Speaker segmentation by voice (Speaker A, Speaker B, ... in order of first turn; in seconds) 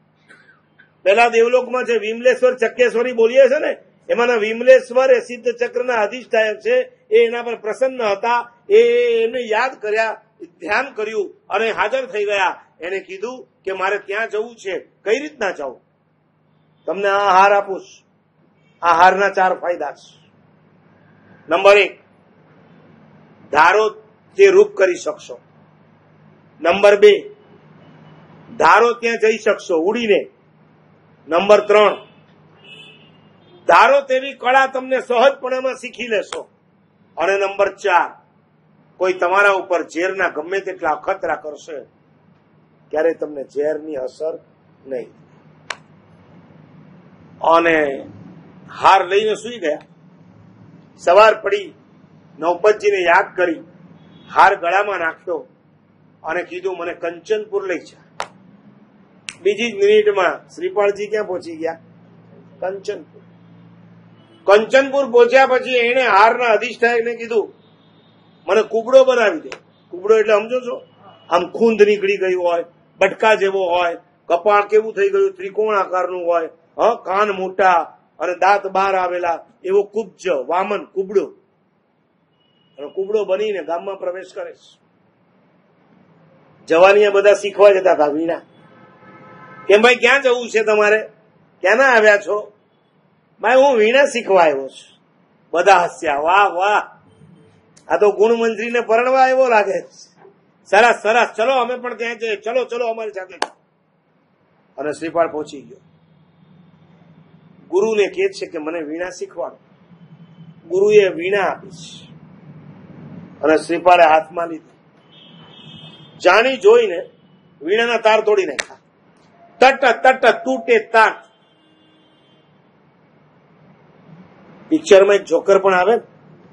Speaker A: 1.0-15.8, 16.9-18.1, 18.8-20.2, 21.5-22.0, 23.5-25.4, 26.6-27.2, 28.6-30.3, 31.3-32.0, 33.7-36.5, 37.2-38.1, 39.0-41.9, 42.9-45.2, 47.4-48.1, 48.8-49.8, 51.0-51.7, 52.4-53.6, 54.3-55.5, 56.2-58.0, 59.4-61.8, 62.6-63.2, 64.5-67.5, 68.5-81.3, 82.8-84.8, 86.7-88.4, 89.7-91.0, 91.6-92.5, 93.4-95.0, 95.5-96.8, 97.9-100.1, 100.7-103.5, 104.8-105.8, 107.7-109.6, 110.7-112.1, 113.4-114.8, 116.2-117.0, 117.6-118.8, 119.6-121.2, 124.7-126.0